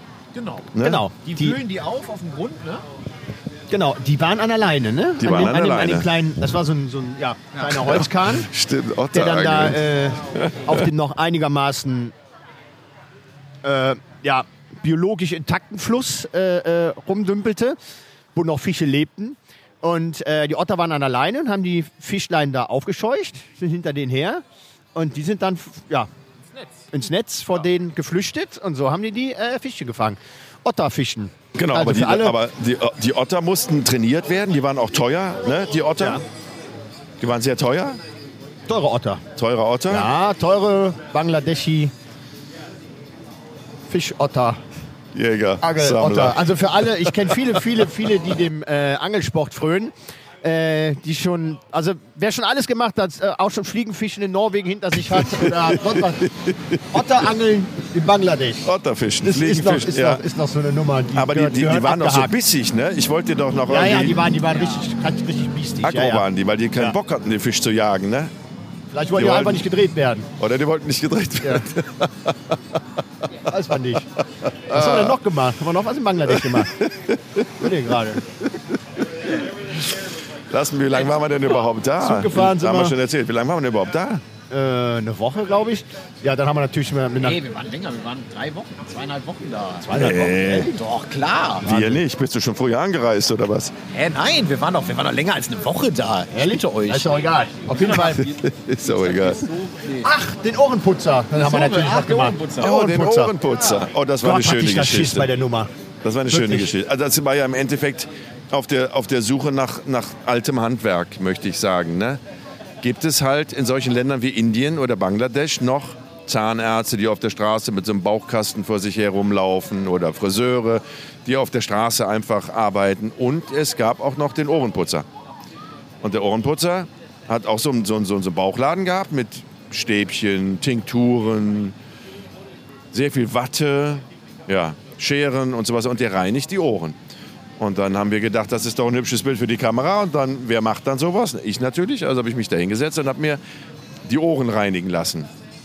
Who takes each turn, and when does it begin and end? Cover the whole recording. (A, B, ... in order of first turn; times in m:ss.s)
0:00.3-0:02.8 A
0:00.7-0:01.0 B
0:00.8-0:01.6 C
0:03.7-0:08.5 C
0:05.2-0:06.1 B
0:07.7-0:10.9 B
0:09.1-0:12.1 C
0:13.6-0:17.8 C
0:18.3-0:24.4 C
0:25.0-0:26.1 C
0:26.5-0:26.9 A
0:26.9-0:32.4 C
0:31.6-0:36.2 B
0:37.2-0:38.0 B
0:38.7-0:39.2 C
0:39.4-0:40.1 B
0:39.9-0:41.9 C
0:43.9-0:44.6 C
0:45.1-0:47.4 B
0:45.6-0:56.3 C
0:55.1-0:56.8 B
0:56.9-0:58.7 C
0:58.6-1:00.2 B
0:59.2-1:02.4 C
1:01.1-1:04.2 B
1:03.7-1:06.2 C
1:05.8-1:08.3 B
1:08.9-1:10.3 C
1:09.1-1:09.7 B
1:10.4-1:13.0 B
1:13.4-1:14.1 C
1:14.0-1:15.2 B
1:14.7-1:16.8 C
1:16.3-1:17.7 B
1:17.6-1:18.2 C
1:19.7-1:20.0 B
1:20.5-1:24.2 B
1:22.0-1:23.0 C
1:24.5-1:27.4 C
1:27.2-1:31.7 A
1:29.8-1:30.8 C
1:29.9-1:30.7 B
1:31.6-1:33.7 B
1:31.7-1:32.0 C
1:33.9-1:37.1 A
1:36.3-1:38.2 C
1:37.7-1:40.1 A
1:37.9-1:39.4 B
1:40.0-1:43.4 C
1:41.3-1:42.7 A
1:42.6-1:45.3 B
1:44.2-1:45.7 C
1:46.0-1:52.2 B
1:46.3-1:46.7 C
1:52.8-2:05.1 B
2:06.0-2:11.8 B
2:12.9-2:17.0 B
2:17.6-2:23.4 B
2:24.1-2:25.3 B